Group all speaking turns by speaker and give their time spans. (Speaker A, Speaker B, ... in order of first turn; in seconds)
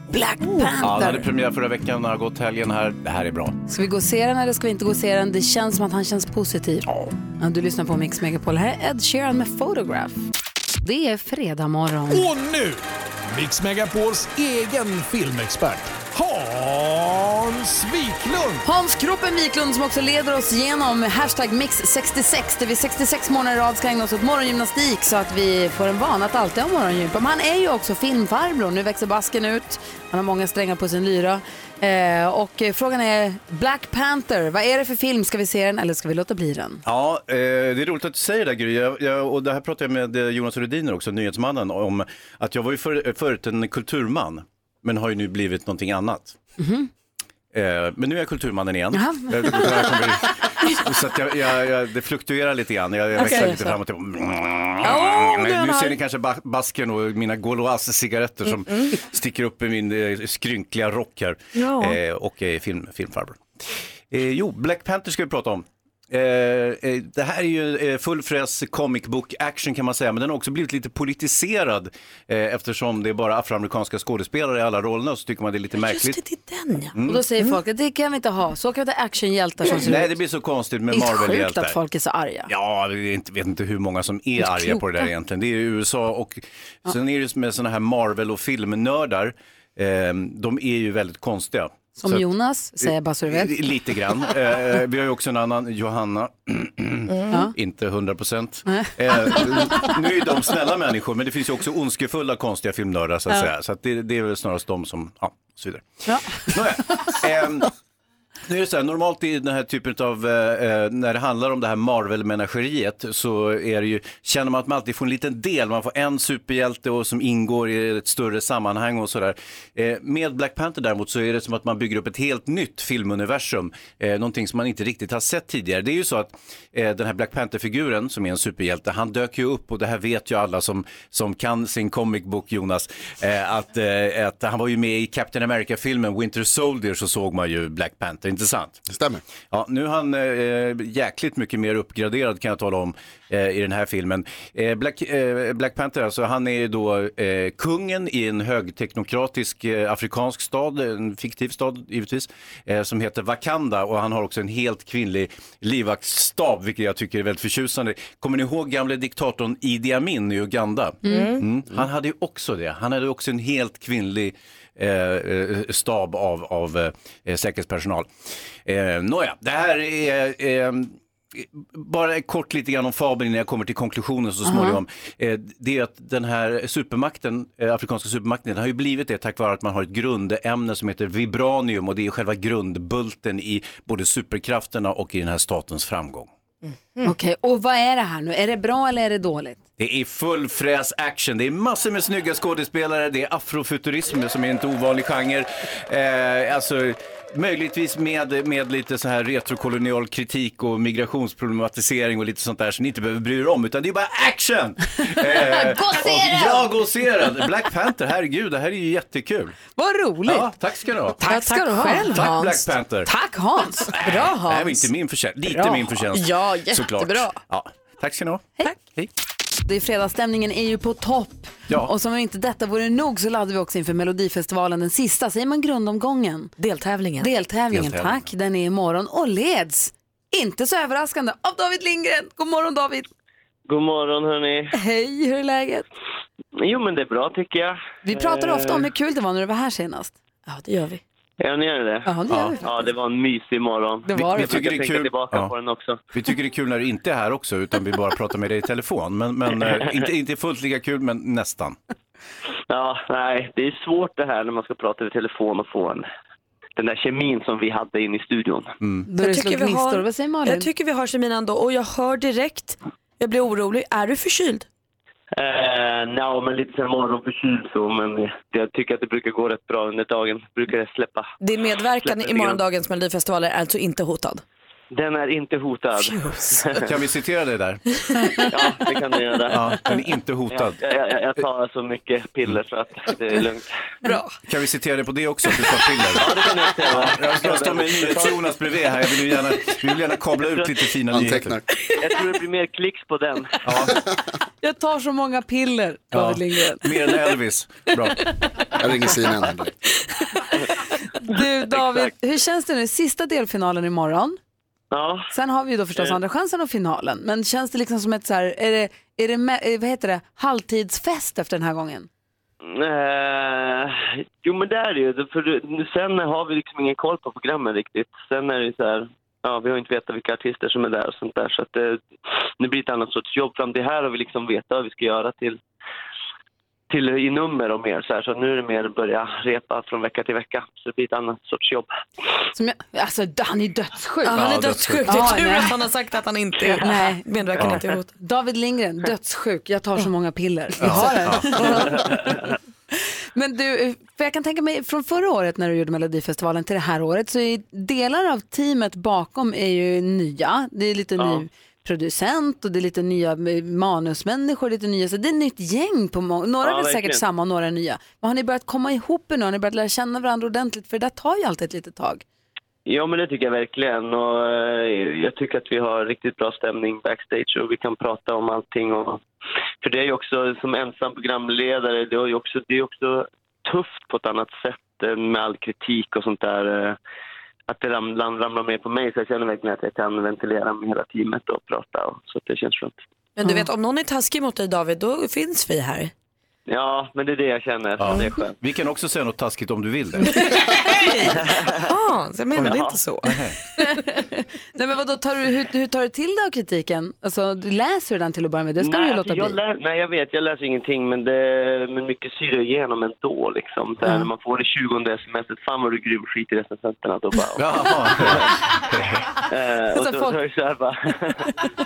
Speaker A: 0.1-1.3, 3.7-10.2, 10.8-12.3, 18.6-36.8, 46.6-46.9, 48.9-49.9, 53.2-53.5, 77.1-80.2, 80.9-82.5, 84.4-85.0, 92.0-93.5, 98.7-99.9, 106.1-106.5, 161.1-161.3, 174.4-174.8, 187.0-189.6, 205.3-206.7, 209.8-210.5, 211.2-212.3, 213.1-213.9, 219.7-226.5, 227.2-233.1, 234.7-235.8, 238.1-240.2, 242.1-242.7, 244.1-244.6, 259.1-260.7, 294.6-296.9, 301.1-304.4, 305.3-312.1, 332.5-334.4, 335.1-335.7, 336.8-342.4, 342.9-362.2, 383.4-383.7, 393.8-399.6, 409.9-410.4
Speaker B: 0.8-3.6, 36.9-46.4, 47.5-63.4, 64.1-76.2, 76.9-77.2, 79.7-81.8, 82.5-92.3, 93.3-107.7, 108.5-138.8, 139.5-168.1, 168.7-186.3, 189.8-209.6, 210.2-211.2, 212.1-213.1, 213.9-219.1, 227.7-228.3, 242.3-242.6, 244.1-245.5, 246.1-251.8, 276.8-277.8, 279.5-280.8, 284.4-291.6, 293.6-294.0, 296.1-298.2, 334.3-335.1, 340.8-341.8, 388.0-390.3, 392.6-393.6, 407.6-409.3
Speaker C: 12.1-18.6
Speaker D: 53.2-53.8, 54.8-56.0, 58.7-58.9, 61.6-62.0, 75.8-77.0, 161.1-161.4, 211.2-212.7, 214.0-214.9, 215.7-217.4, 226.6-227.3, 240.5-241.0, 259.2-264.6, 271.4-274.4, 276.0-276.8, 284.1-284.4, 334.2-338.1, 340.9-342.0, 383.4-386.1, 390.3-393.6
Speaker E: 138.9-139.2, 291.1-291.6, 293.9-294.2, 298.8-299.7
Speaker F: 233.7-234.7, 236.6-238.9, 241.4-246.0, 252.7-256.1, 256.8-258.8, 265.4-271.3, 272.0-272.6, 274.9-276.8, 278.5-279.7, 280.5-283.7, 286.2-288.4, 292.0-293.6, 301.7-302.1, 304.9-305.3, 312.6-322.0, 322.6-325.6, 326.9-331.9, 351.2-351.4, 356.6-357.2, 362.9-369.2, 369.8-377.0, 377.7-383.0, 386.7-388.6, 391.3-391.9, 392.7-392.9, 398.8-407.6, 409.5-411.6